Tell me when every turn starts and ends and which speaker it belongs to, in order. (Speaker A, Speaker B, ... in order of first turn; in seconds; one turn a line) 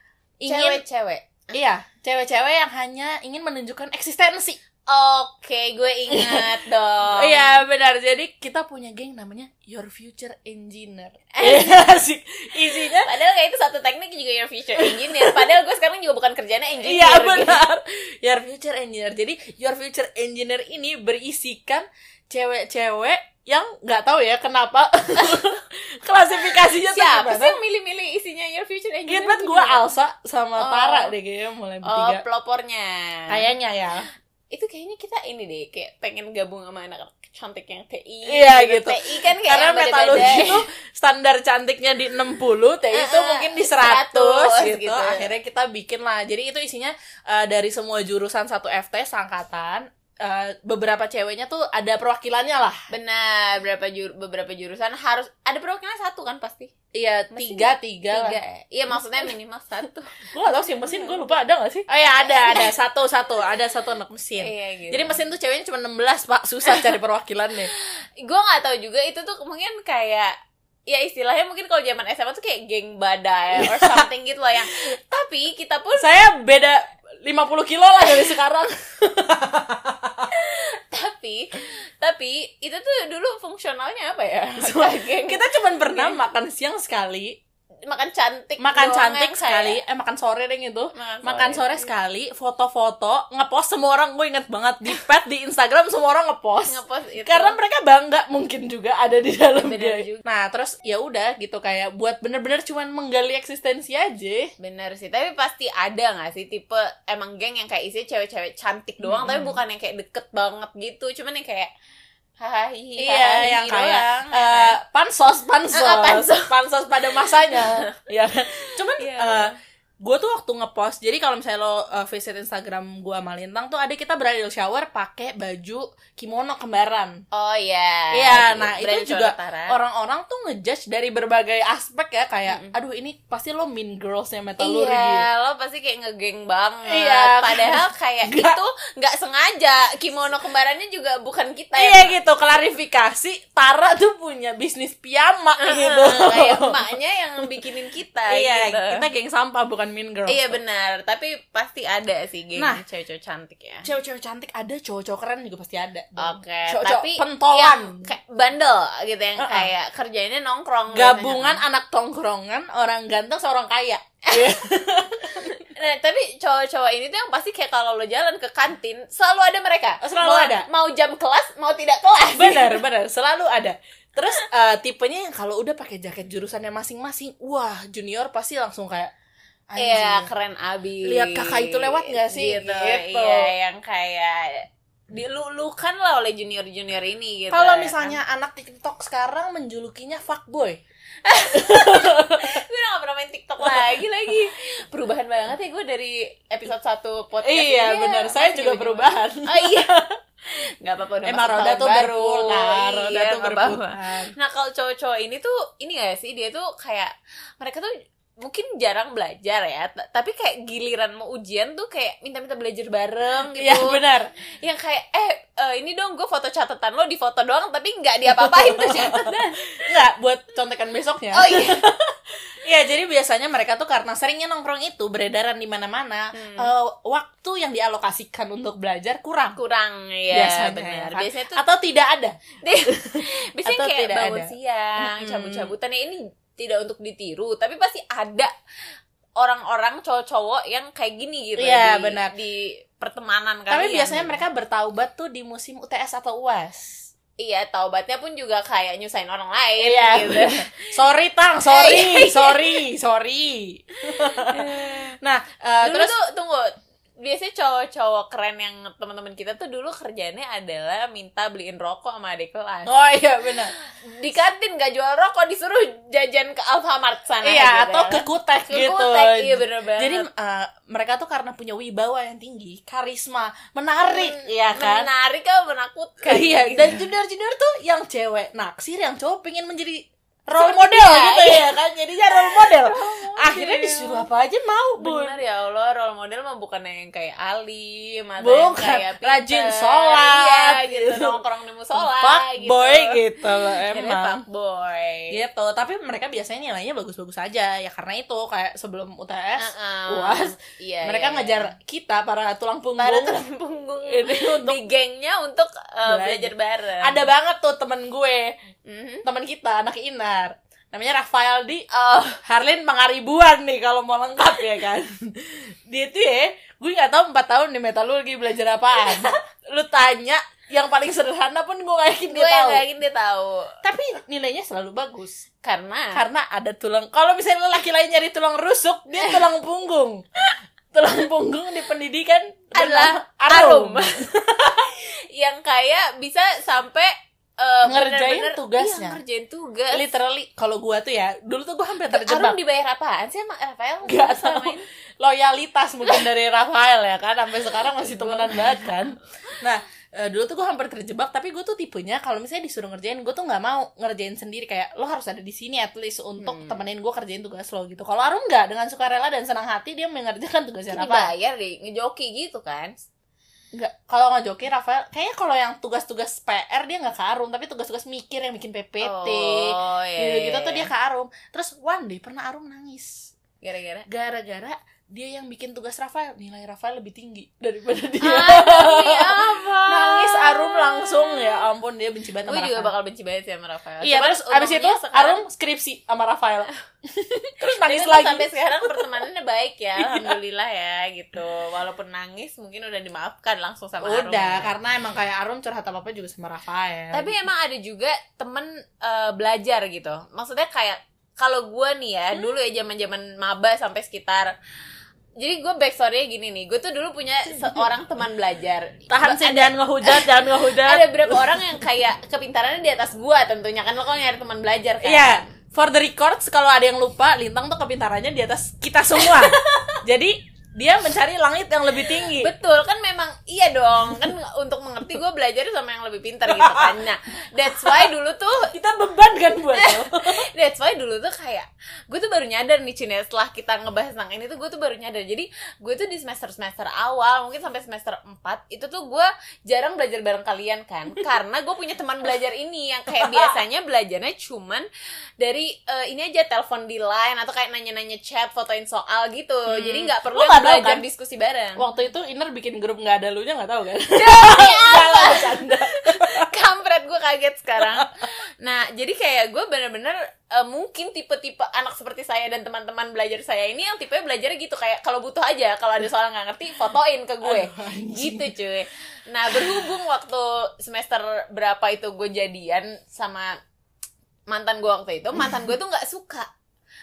Speaker A: 0.4-0.8
Speaker B: 0.5-1.5
Speaker A: 1.5-4.6
Speaker B: 4.9-7.5
Speaker A: 6.1-6.4
Speaker A: 7.1-13.1
Speaker B: 11.3-11.8
Speaker B: 13.0-17.6
Speaker A: 14.8-15.4
Speaker A: 16.8-27.6
Speaker B: 26.4-29.8
Speaker A: 29.1-32.2
Speaker B: 30.6-31.1
Speaker B: 31.9-33.4
Speaker A: 33.3-34.1
Speaker B: 34.5-40.6
Speaker A: 38.3-52.8
Speaker B: 42.9-45.3
Speaker B: 52.9-56.7
Speaker A: 56.9-58.4
Speaker B: 57.3-60.1
Speaker A: 60.3-67.7
Speaker B: 60.8-61.2
Speaker B: 62.2-62.7
Speaker B: 64.4-65.1
Speaker B: 66.7-66.9
Speaker B: 67.7-70.3
Speaker B: 70.9-76.1
Speaker A: 73.6-74.0
Speaker A: 76.0-80.3
Speaker B: 80.3-86.2
Speaker A: 84.6-87.4
Speaker B: 87.8-89.8
Speaker A: 88.6-104.5
Speaker B: 90.9-91.9
Speaker B: 96.7-97.6
Speaker B: 99.6-100.2
Speaker B: 104.6-111.7
Speaker A: 109.0-109.6
Speaker B: 112.4-114.8
Speaker A: 113.0-127.2
Speaker B: 115.7-116.5
Speaker B: 117.1-117.9
Speaker B: 119.0-119.5
Speaker B: 127.3-129.8
Speaker A: 128.1-135.3
Speaker B: 132.5-132.7
Speaker B: 134.6-142.1
Speaker A: 136.9-138.6
Speaker A: 141.8-146.8
Speaker B: 145.6-149.0
Speaker A: 148.3-150.6
Speaker B: 150.3-153.9
Speaker A: 153.8-158.1
Speaker B: 156.2-161.6
Speaker A: 159.4-159.7
Speaker A: 160.9-165.6
Speaker B: 164.3-164.6
Speaker B: 165.4-172.8
Speaker A: 170.0-170.7
Speaker A: 172.3-179.1
Speaker A: 179.7-180.3
Speaker B: 179.8-188.2
Speaker A: 181.1-183.5
Speaker A: 187.5-190.8
Speaker B: 191.2-199.9
Speaker A: 191.5-192.6
Speaker A: 193.7-193.9
Speaker A: 197.4-200.1
Speaker B: 200.5-214.0
Speaker A: 201.3-204.3
Speaker A: 213.6-214.3
Speaker B: 214.6-219.7
Speaker A: 218.3-222.0
Speaker B: 221.3-221.8
Speaker A: 222.6-229.6
Speaker B: 226.3-226.7
Speaker B: 229.6-231.6
Speaker A: 230.3-232.4
Speaker B: 232.6-238.5
Speaker A: 232.9-235.7
Speaker B: 239.4-244.4
Speaker A: 241.6-242.3
Speaker A: 243.7-247.1
Speaker B: 247.4-250.8
Speaker A: 249.8-256.1
Speaker B: 251.7-252.8
Speaker B: 254.1-255.1
Speaker B: 255.8-262.9
Speaker A: 262.9-263.7
Speaker B: 263.5-270.3
Speaker A: 267.4-275.1
Speaker B: 274.1-277.1
Speaker A: 276.2-285.4
Speaker B: 280.6-281.7
Speaker B: 282.3-284.3
Speaker B: 285.0-295.4
Speaker A: 288.4-291.4
Speaker A: 291.9-294.4
Speaker A: 295.3-303.4
Speaker B: 299.6-301.7
Speaker B: 303.0-307.2
Speaker A: 304.1-304.8
Speaker A: 306.1-308.5
Speaker B: 308.9-309.2
Speaker A: 309.2-311.9
Speaker B: 311.9-312.4
Speaker A: 312.4-322.8
Speaker B: 319.0-319.4
Speaker B: 322.3-323.7
Speaker A: 323.8-325.4
Speaker B: 325.6-326.2
Speaker A: 326.1-330.2
Speaker B: 329.2-329.5
Speaker A: 330.9-334.9
Speaker B: 332.8-334.2
Speaker B: 334.8-340.1
Speaker A: 337.9-339.2
Speaker A: 339.9-342.6
Speaker B: 342.1-344.9
Speaker A: 344.1-361.3
Speaker B: 347.9-349.0
Speaker B: 356.4-356.8
Speaker B: 360.9-363.0
Speaker A: 363.7-373.3
Speaker B: 369.0-370.9
Speaker B: 373.6-374.1
Speaker A: 374.1-382.9
Speaker B: 378.2-381.7
Speaker B: 382.5-385.4
Speaker A: 384.0-386.7
Speaker A: 387.6-389.1
Speaker B: 387.6-394.7
Speaker A: 390.0-390.4
Speaker A: 394.0-397.4
Speaker B: 397.1-404.5
Speaker B: 405.4-415.5
Speaker A: 409.1-411.8
Speaker A: 415.0-422.5
Speaker B: 419.2-420.0
Speaker B: 422.0-428.7
Speaker A: 426.5-427.0
Speaker A: 427.7-428.1
Speaker A: 428.6-430.4
Speaker B: 429.7-444.9
Speaker A: 443.1-443.6
Speaker B: 445.4-451.8
Speaker A: 449.7-451.0
Speaker A: 451.8-456.5
Speaker B: 454.1-473.6
Speaker A: 457.8-458.1
Speaker A: 467.4-468.5
Speaker A: 469.5-469.8
Speaker B: 474.5-476.5